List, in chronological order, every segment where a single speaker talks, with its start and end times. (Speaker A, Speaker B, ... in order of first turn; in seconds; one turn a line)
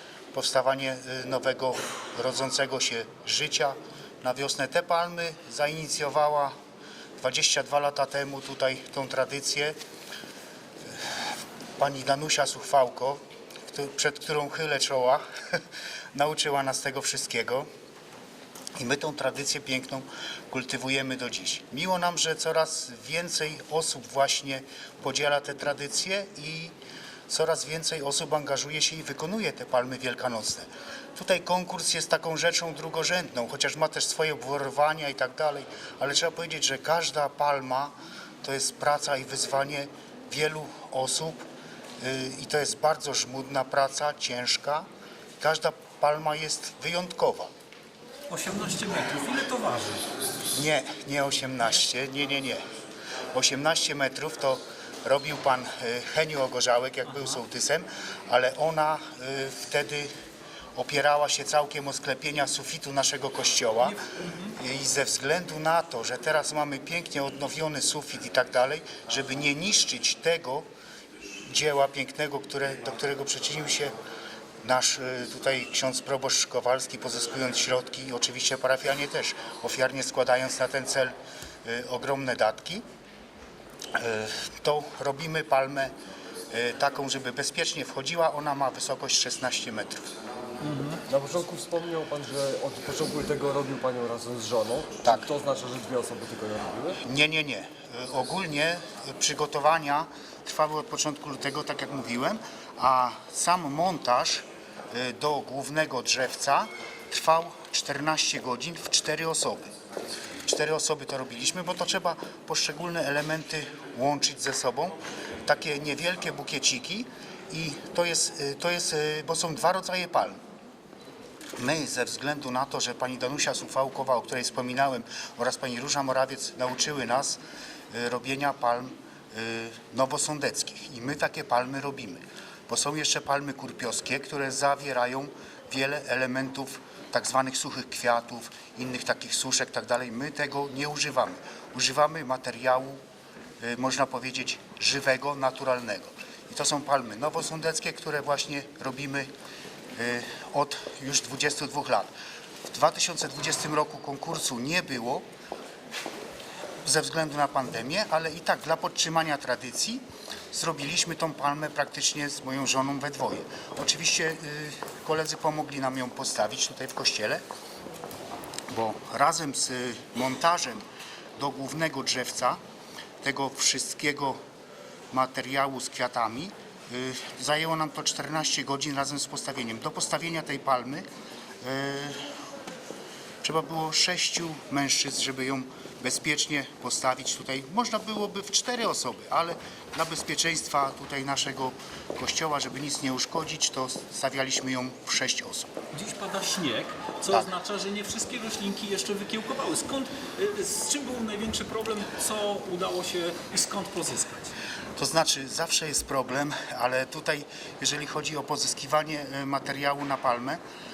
Speaker A: 0.3-6.5
Speaker A: 7.2-9.8
Speaker A: 11.8-13.2
Speaker A: 13.7-15.6
Speaker A: 16.1-17.7
Speaker A: 18.8-26.7
Speaker A: 27.3-41.4
Speaker A: 42.0-44.9
Speaker A: 45.4-47.5
Speaker B: 48.3-50.0
Speaker A: 50.5-52.6
Speaker A: 53.3-60.1
Speaker B: 57.1-57.4
Speaker A: 60.8-64.0
Speaker B: 64.1-64.6
Speaker A: 64.5-70.7
Speaker A: 71.5-73.9
Speaker A: 74.6-81.1
Speaker A: 81.7-82.8
Speaker A: 83.9-85.9
Speaker A: 86.5-90.0
Speaker B: 90.6-91.0
Speaker C: 91.1-97.0
Speaker A: 97.0-109.7
Speaker A: 110.5-120.4
Speaker A: 121.6-127.4
Speaker A: 127.9-143.0
Speaker A: 143.6-149.3
Speaker A: 150.0-152.1
Speaker A: 152.7-155.2
Speaker A: 156.8-167.4
Speaker A: 168.7-170.8
Speaker A: 171.4-172.6
Speaker A: 173.2-174.4
Speaker A: 175.1-181.1
Speaker A: 181.6-182.2
Speaker A: 183.4-195.7
Speaker B: 195.9-204.5
Speaker A: 205.0-210.6